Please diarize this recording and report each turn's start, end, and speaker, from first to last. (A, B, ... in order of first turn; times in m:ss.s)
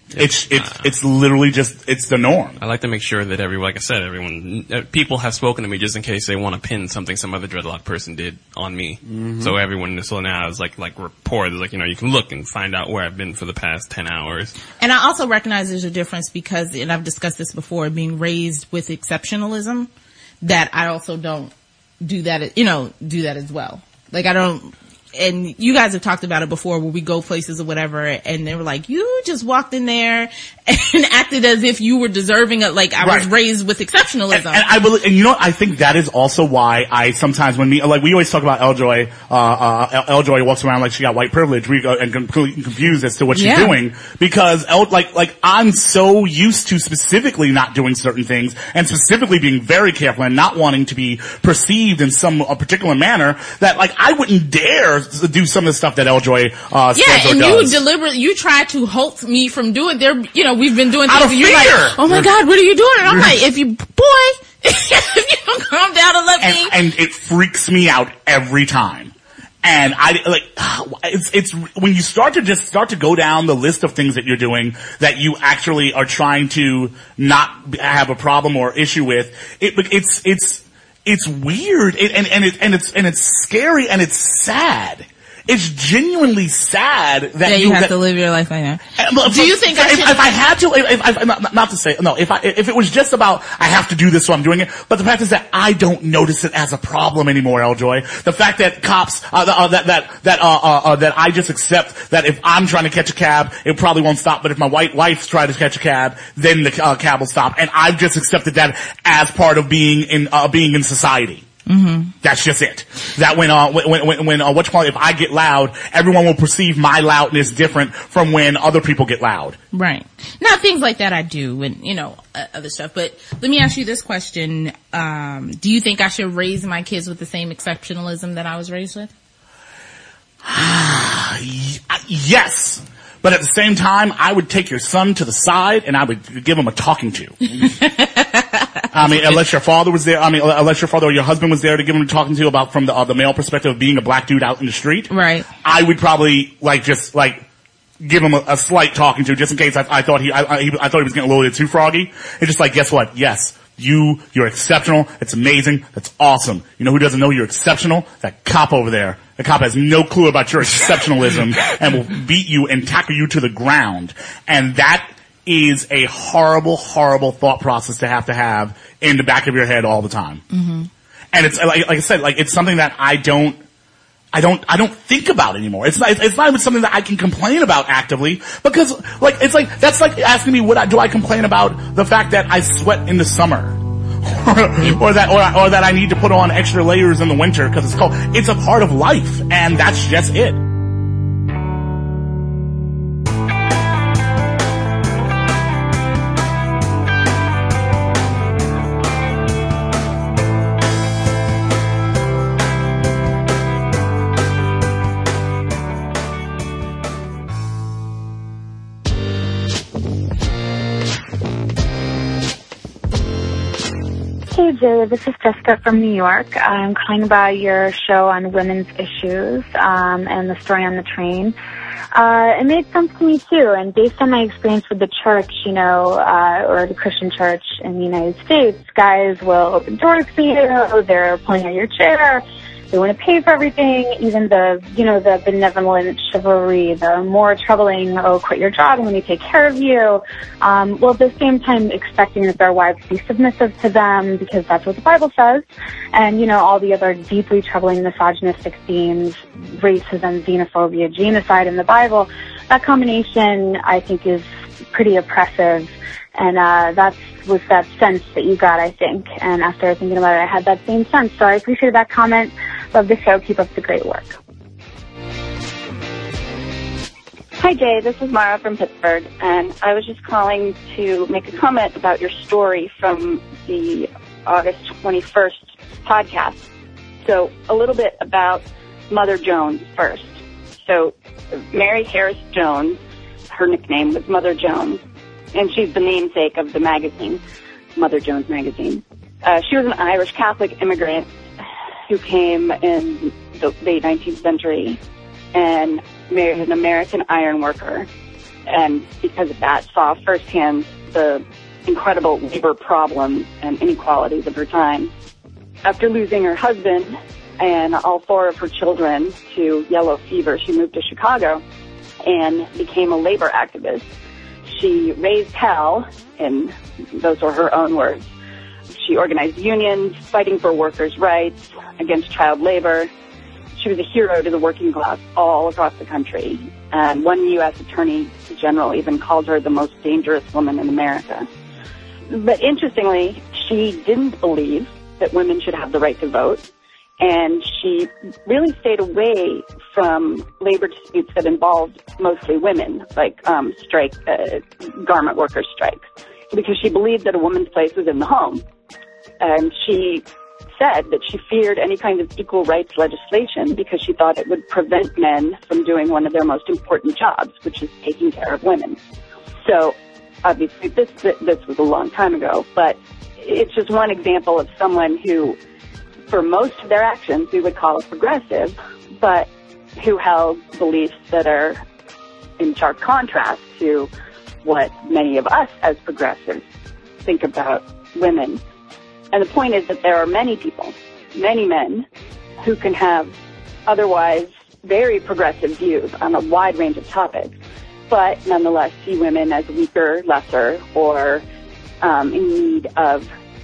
0:00.1-0:01.0 A
0:00.2-0:02.6 B
0:02.6-0:14.5 A
0:14.8-0:19.9 C
0:20.4-0:21.5 C
0:22.0-0:34.6 C
0:33.0-0:33.3 B
0:34.3-0:57.8 B
0:43.4-0:43.8 C
0:57.0-1:06.7 C
1:01.0-1:02.3 B
1:03.0-1:03.4 B
1:06.4-1:09.1 B
1:09.6-1:27.9 B
1:27.4-1:30.3 C
1:29.0-1:51.4 B
1:51.7-1:52.1 C
1:52.2-1:59.6 B
1:59.7-2:09.1 C
2:10.5-2:17.4 B
2:17.6-2:19.4 C
2:18.9-2:25.1 B
2:25.1-2:25.5 C
2:25.6-2:27.4 B
2:28.0-2:50.4 B
2:50.5-2:50.9 C
2:51.3-2:53.6 B
2:54.3-3:03.8 B
3:04.3-3:10.6 B
3:34.5-3:41.6 D
3:42.1-4:24.4 D
4:27.6-4:36.6 E
4:37.2-4:41.1 E
4:41.7-4:43.0 E
4:43.5-4:45.0 E
4:45.5-4:47.4 E
4:48.0-4:51.3 E
4:52.1-4:55.0 E
4:55.5-4:58.1 E
4:58.7-5:05.1 E
5:05.8-5:11.6 E
5:12.2-5:14.1 E
5:14.7-5:18.3 E
5:19.0-5:23.1 E
5:23.8-5:31.5 E
5:32.3-5:36.6 E
5:37.2-5:48.6 E
5:49.4-5:50.2 E
5:50.8-5:59.0 E
5:59.6-6:05.6 E
6:06.3-6:11.8 E
6:12.6-6:14.1 E
6:14.6-6:16.6 E
6:17.2-6:18.6 E
6:19.3-6:22.1 E
6:22.6-6:23.3 E
6:23.9-6:27.5 E
6:28.1-6:31.4 E
6:32.0-6:33.3 E